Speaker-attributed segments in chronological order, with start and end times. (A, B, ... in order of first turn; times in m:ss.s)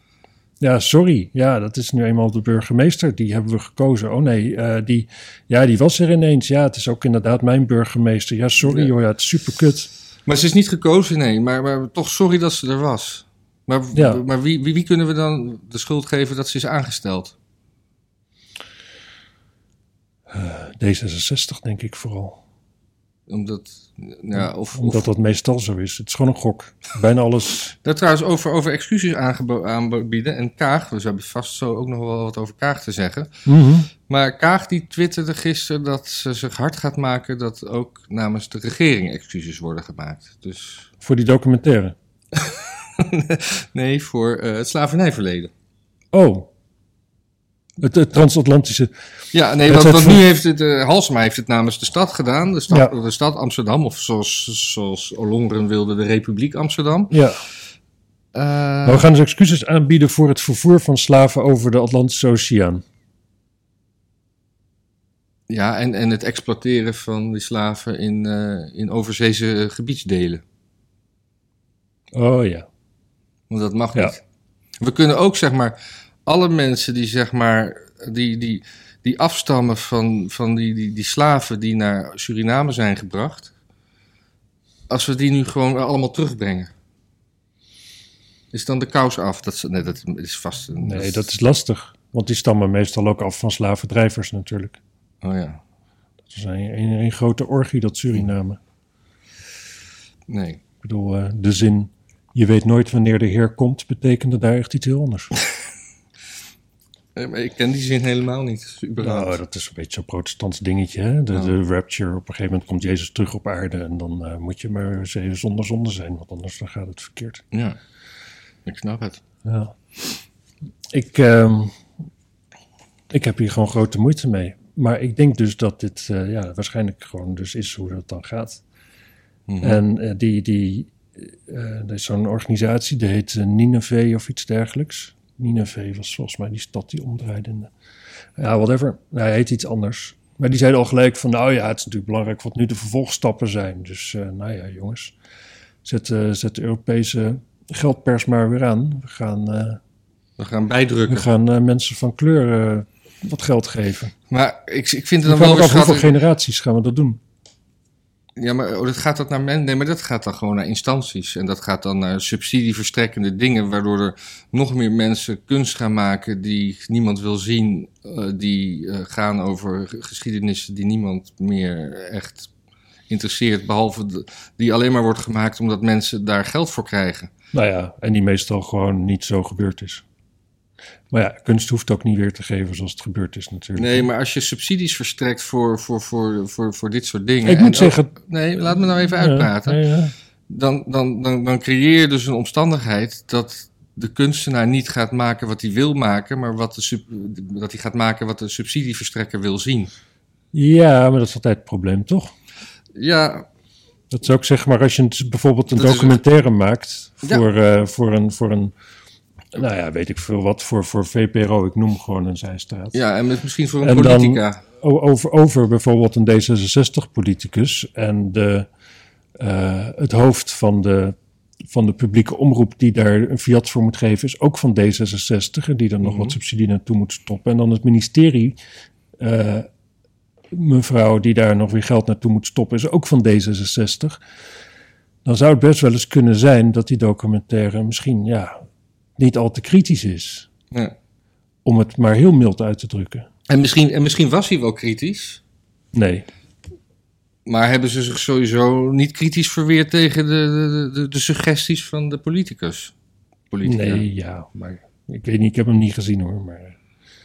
0:00.6-0:09.9 A
0:10.2-0:17.3 B
0:13.9-0:14.2 A
0:20.3-0:22.4 A
0:23.3-0:25.1 B
0:24.4-0:27.7 A
0:27.8-0:33.3 B
0:33.4-0:33.9 A
0:34.1-0:40.9 B
0:41.0-0:41.9 A
0:42.3-0:45.5 B
0:46.1-0:46.5 A
0:47.8-0:48.9 A
0:49.3-0:57.1 B
0:49.6-0:50.2 A
0:57.1-0:57.4 A
0:58.3-0:59.1 B
0:58.8-1:02.8 A
1:05.5-1:10.4 B
1:12.1-1:12.7 A
1:13.5-1:14.2 B
1:14.8-1:23.5 B
1:24.9-1:26.7 B
1:28.5-1:31.3 B
1:30.8-1:34.8 A
1:35.2-1:35.6 B
1:36.3-1:38.6 A
1:40.3-1:40.6 B
1:40.8-1:45.3 A
1:47.2-1:49.4 B
1:49.0-1:57.4 A
1:57.5-1:57.8 B
1:58.6-1:59.2 B
1:59.4-1:59.7 A
2:00.9-2:01.8 A
2:03.1-2:08.6 A
2:09.5-2:09.8 B
2:09.6-2:17.7 A
2:18.4-2:25.1 A
2:25.8-2:29.8 A
2:30.4-2:31.3 B
2:31.1-2:34.1 A
2:34.3-2:36.1 B
2:35.2-2:37.2 A
2:38.4-2:52.5 B
2:53.1-2:57.3 B
2:57.5-3:00.0 A
3:01.1-3:04.1 A
3:03.8-3:09.8 B
3:07.4-3:08.1 A
3:09.2-3:10.1 A
3:10.5-3:19.9 B
3:20.5-3:22.3 A
3:23.0-3:23.4 B
3:24.1-3:28.7 A
3:25.7-3:26.2 B
3:29.5-3:32.9 A
3:32.9-3:34.6 B
3:33.8-3:38.7 A
3:39.4-3:41.2 A
3:41.7-3:48.6 A
3:46.0-3:46.3 B
3:49.2-3:49.7 A
3:50.5-3:54.2 A
3:55.2-3:58.6 A
3:59.2-4:00.5 A
4:01.6-4:03.3 A
4:03.5-4:05.4 B
4:05.9-4:06.2 A
4:07.4-4:12.9 B
4:13.5-4:14.0 B
4:13.6-4:16.8 A